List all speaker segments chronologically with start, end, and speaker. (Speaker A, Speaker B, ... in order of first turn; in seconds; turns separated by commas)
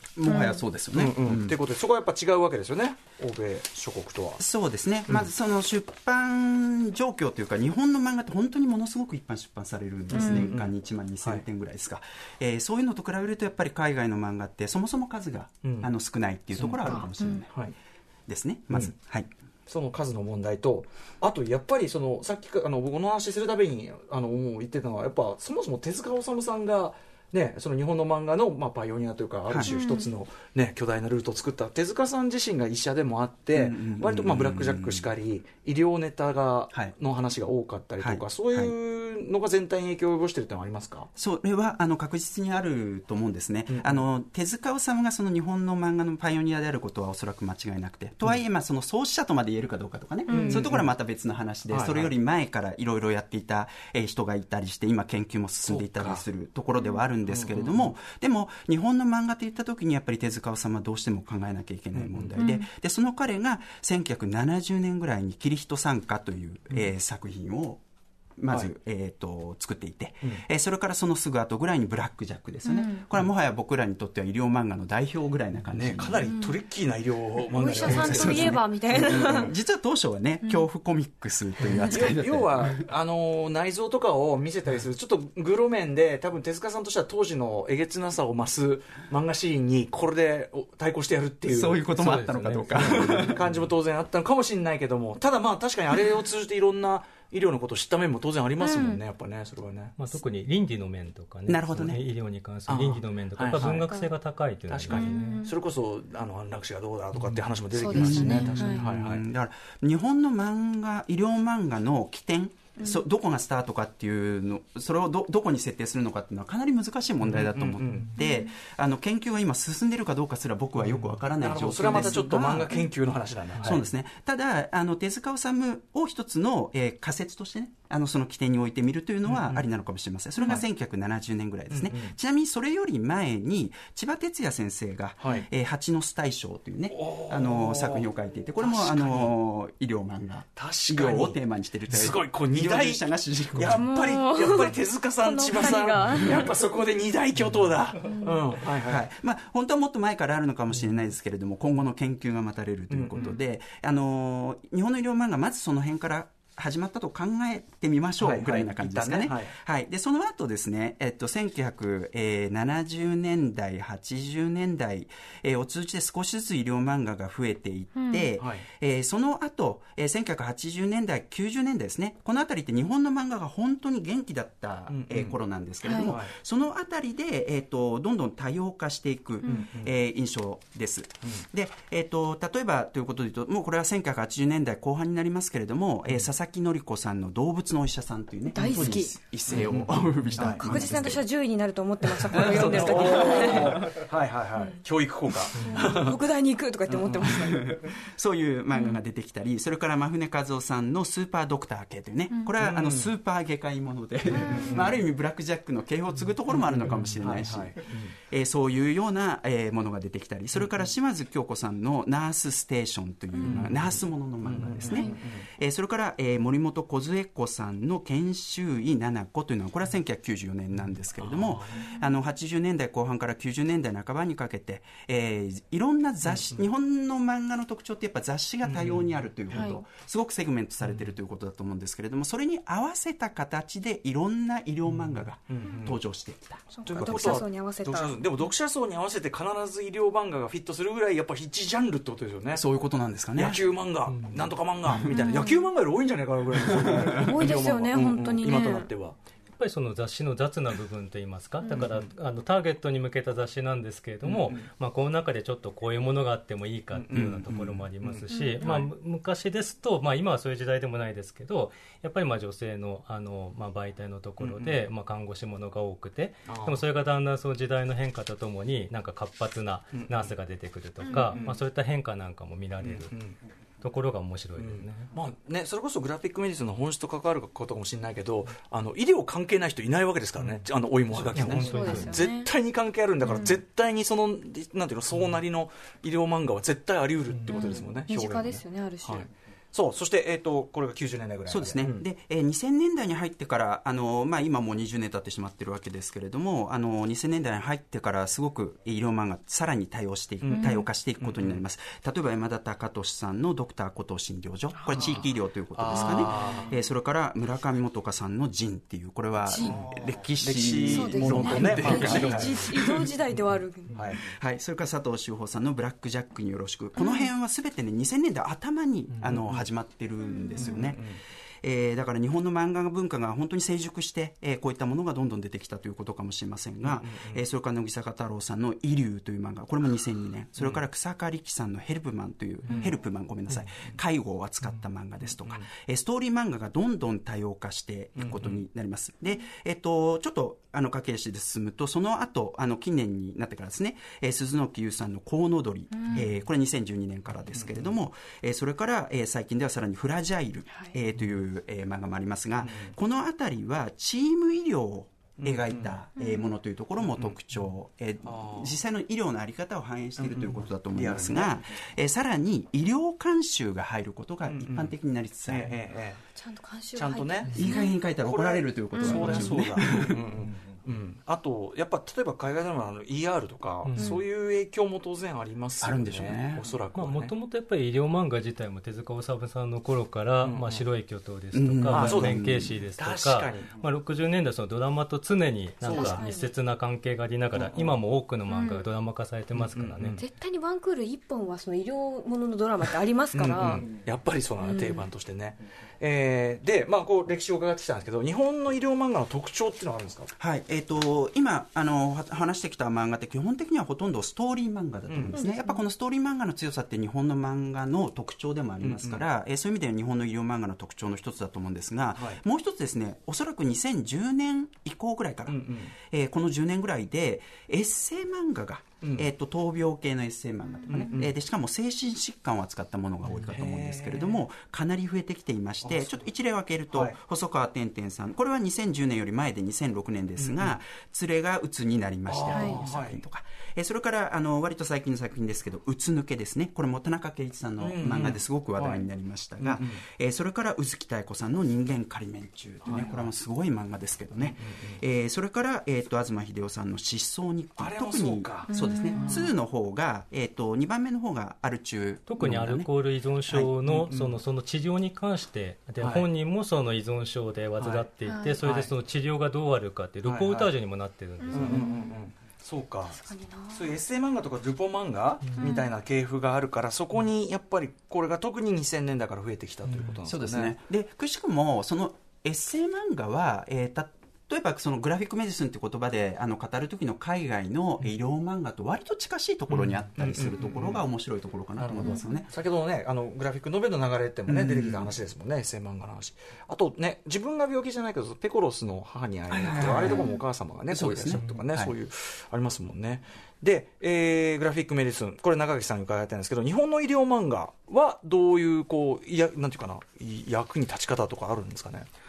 Speaker A: 0.2-1.6, Speaker B: 0.3-0.6, Speaker C: 0.3-4.4, Speaker A: 4.4-17.6, Speaker C: 10.1-11.4, Speaker B: 10.1-10.5, Speaker C: 15.6-15.9, Speaker C: 16.5-17.7, Speaker B: 16.9-17.4, Speaker A: 18.3-19.3, Speaker C: 19.7-41.1, Speaker A: 29.5-29.7, Speaker B: 29.6-30.1, Speaker A: 33.5-35.1, Speaker A: 38.0-38.7, Speaker A: 41.1-67.8, Speaker C: 43.7-44.0, Speaker B: 50.3-50.7, Speaker C: 50.3-50.9, Speaker C: 51.7-52.1, Speaker C: 55.6-56.2, Speaker C: 57.3-57.9, Speaker C: 61.9-62.4, Speaker B: 62.4-62.7, Speaker A: 68.4-76.3, Speaker B: 72.6-73.0, Speaker C: 75.7-78.6, Speaker B: 76.2-76.5, Speaker B: 77.5-79.5, Speaker A: 77.8-82.8, Speaker C: 81.6-100.0, Speaker A: 91.5-93.4, Speaker D: 91.9-93.3, Speaker B: 98.6-99.0, Speaker D: 100.0-105.4, Speaker A: 101.5-102.0, Speaker C: 102.7-104.0, Speaker C: 104.7-109.2, Speaker B: 104.9-105.5, Speaker B: 107.7-108.8, Speaker A: 107.9-122.8, Speaker B: 112.8-113.0, Speaker C: 117.2-118.1, Speaker B: 118.2-118.5, Speaker C: 120.8-123.8, Speaker A: 123.6-143.8, Speaker C: 129.3-129.7, Speaker C: 131.7-132.2, Speaker C: 135.2-135.4, Speaker C: 136.9-139.3, Speaker C: 140.6-149.1, Speaker B: 143.6-146.5, Speaker B: 148.0-148.4, Speaker A: 148.7-191.2, Speaker C: 152.9-153.4, Speaker C: 158.2-159.6, Speaker B: 167.9-168.3, Speaker C: 168.4-168.6, Speaker C: 174.9-175.4, Speaker B: 175.8-176.1, Speaker C: 175.9-176.3, Speaker C: 179.5-179.9, Speaker B: 188.5-189.2, Speaker C: 189.5-190.9, Speaker B: 190.4-193.8, Speaker A: 192.3-193.8, Speaker C: 192.3-196.2, Speaker B: 195.5-197.8, Speaker C: 196.9-197.5, Speaker A: 197.3-237.4, Speaker B: 198.7-199.0, Speaker C: 202.6-203.1, Speaker B: 204.3-204.8, Speaker C: 204.3-205.0, Speaker C: 206.5-208.2, Speaker C: 210.6-210.8, Speaker B: 213.3-213.6, Speaker C: 213.4-215.5, Speaker B: 214.9-215.2, Speaker C: 221.2-221.8, Speaker C: 226.2-226.6, Speaker C: 228.6-229.7, Speaker B: 229.5-229.8, Speaker C: 235.5-236.0, Speaker B: 236.7-238.4, Speaker C: 236.8-242.6, Speaker A: 242.5-243.6, Speaker C: 243.3-249.2, Speaker D: 244.1-244.4, Speaker A: 244.9-245.3, Speaker B: 245.0-245.7, Speaker A: 246.7-247.3, Speaker B: 247.2-248.9, Speaker D: 249.6-273.1, Speaker C: 251.7-252.1, Speaker C: 254.2-254.7, Speaker C: 256.9-258.9, Speaker A: 257.1-257.5, Speaker B: 258.3-258.8, Speaker C: 264.4-264.8, Speaker C: 266.5-266.8, Speaker C: 269.9-270.3, Speaker B: 271.0-271.5, Speaker C: 271.1-271.6, Speaker C: 272.8-273.4, Speaker D: 273.8-275.1, Speaker C: 274.6-292.0, Speaker D: 281.3-282.2, Speaker B: 281.4-282.5, Speaker B: 283.2-283.6, Speaker B: 287.5-289.3, Speaker A: 291.5-313.1, Speaker C: 300.4-301.6, Speaker B: 300.5-300.9, Speaker C: 304.9-306.7, Speaker B: 304.9-305.2, Speaker B: 305.9-306.6, Speaker B: 309.5-309.8, Speaker C: 309.6-312.7, Speaker B: 310.9-313.9, Speaker C: 313.9-314.2, Speaker A: 314.1-321.1, Speaker B: 317.0-317.2, Speaker C: 319.2-319.6, Speaker B: 320.2-320.9, Speaker C: 320.6-321.2, Speaker A: 321.6-365.7, Speaker C: 326.8-327.4, Speaker C: 332.7-332.9, Speaker C: 333.5-333.9, Speaker C: 338.2-338.6, Speaker B: 345.9-346.3, Speaker C: 347.6-347.9, Speaker C: 352.6-352.9, Speaker C: 355.4-356.0, Speaker B: 356.2-356.4, Speaker C: 357.1-357.4, Speaker C: 358.2-358.8, Speaker C: 360.2-361.6, Speaker C: 364.4-364.9, Speaker C: 365.5-366.2, Speaker B: 366.4-367.9, Speaker C: 366.9-367.6, Speaker A: 367.5-370.3, Speaker C: 368.2-377.3, Speaker B: 368.9-369.6, Speaker D: 373.8-374.2, Speaker B: 374.0-374.2, Speaker A: 375.8-376.6, Speaker D: 376.9-390.2, Speaker C: 380.4-380.9, Speaker A: 381.5-382.8, Speaker C: 381.9-383.7, Speaker B: 385.8-386.5, Speaker C: 385.8-386.2, Speaker C: 387.5-387.9, Speaker B: 388.5-388.8, Speaker C: 389.5-390.2, Speaker B: 390.2-393.9, Speaker C: 393.3-400.3, Speaker B: 394.6-395.1, Speaker A: 400.4-452.9, Speaker C: 405.1-405.4, Speaker B: 405.3-405.8, Speaker C: 408.8-409.2, Speaker C: 415.5-415.9, Speaker C: 419.0-419.3, Speaker B: 420.8-421.0, Speaker C: 420.9-421.3, Speaker C: 423.2-424.4, Speaker C: 425.8-426.2, Speaker C: 430.4-430.8, Speaker C: 432.3-433.2, Speaker B: 432.5-432.8, Speaker C: 437.8-439.1, Speaker C: 439.6-440.0, Speaker C: 442.9-443.3, Speaker C: 444.4-445.0, Speaker C: 447.8-449.3, Speaker B: 448.7-449.5, Speaker D: 452.3-461.9, Speaker A: 453.4-453.8, Speaker C: 453.8-454.4, Speaker C: 456.0-456.3, Speaker C: 457.8-458.1, Speaker B: 458.3-458.6, Speaker C: 458.6-458.9, Speaker C: 460.2-460.7, Speaker B: 461.4-462.2, Speaker C: 461.5-470.7, Speaker B: 463.1-464.0, Speaker D: 465.5-465.7, Speaker B: 465.6-465.9, Speaker A: 470.2-482.5, Speaker C: 479.7-481.0, Speaker C: 481.8-502.1, Speaker A: 484.5-485.1, Speaker A: 489.5-490.3, Speaker B: 489.9-490.4, Speaker A: 490.9-491.9